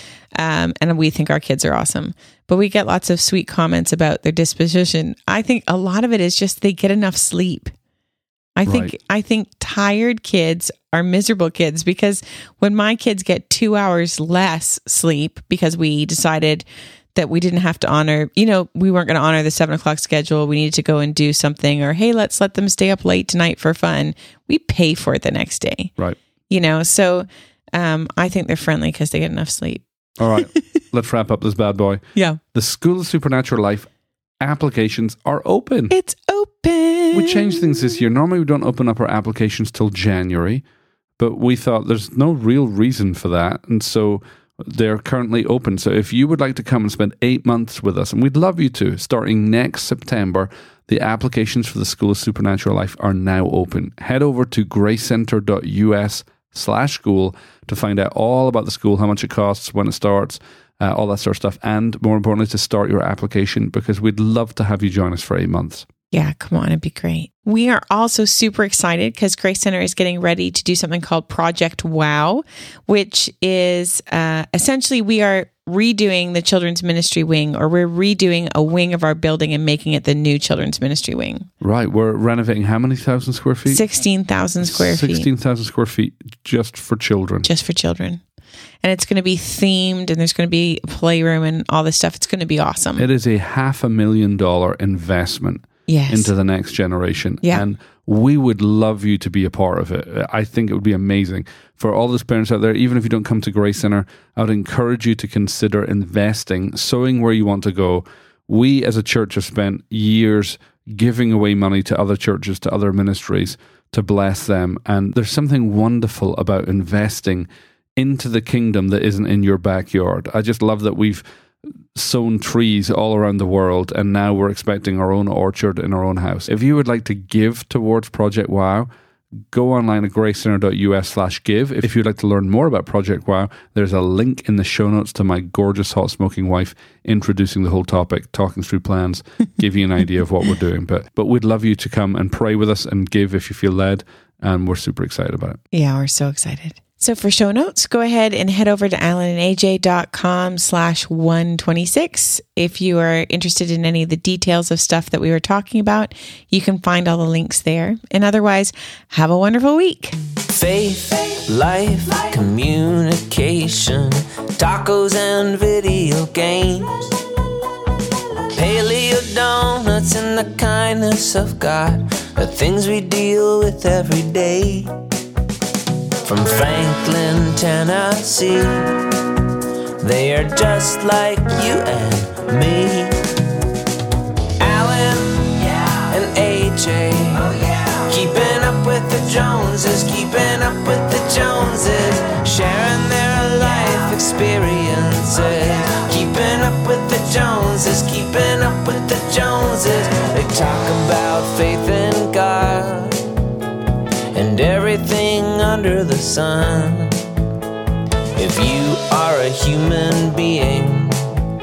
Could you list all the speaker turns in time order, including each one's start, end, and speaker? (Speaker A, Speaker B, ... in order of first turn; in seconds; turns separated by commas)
Speaker A: 0.3-7.7, Speaker A: 8.6-25.9, Speaker B: 8.7-8.9, Speaker A: 26.5-30.6, Speaker B: 30.2-32.0, Speaker B: 32.5-33.9, Speaker B: 34.4-35.9, Speaker A: 35.9-37.9, Speaker B: 37.1-40.6, Speaker B: 41.2-65.9, Speaker A: 66.1-81.5, Speaker B: 81.6-83.8, Speaker A: 83.7-85.3, Speaker B: 84.6-87.5, Speaker A: 87.4-88.2, Speaker A: 88.8-93.0, Speaker B: 93.0-121.2, Speaker A: 95.9-96.3, Speaker B: 121.9-128.9, Speaker B: 129.5-145.6, Speaker A: 145.7-160.1, Speaker C: 160.4-167.1, Speaker C: 168.5-174.9, Speaker C: 176.2-179.3, Speaker C: 180.0-183.3, Speaker C: 184.6-203.3, Speaker C: 204.3-207.3, Speaker C: 208.3-211.2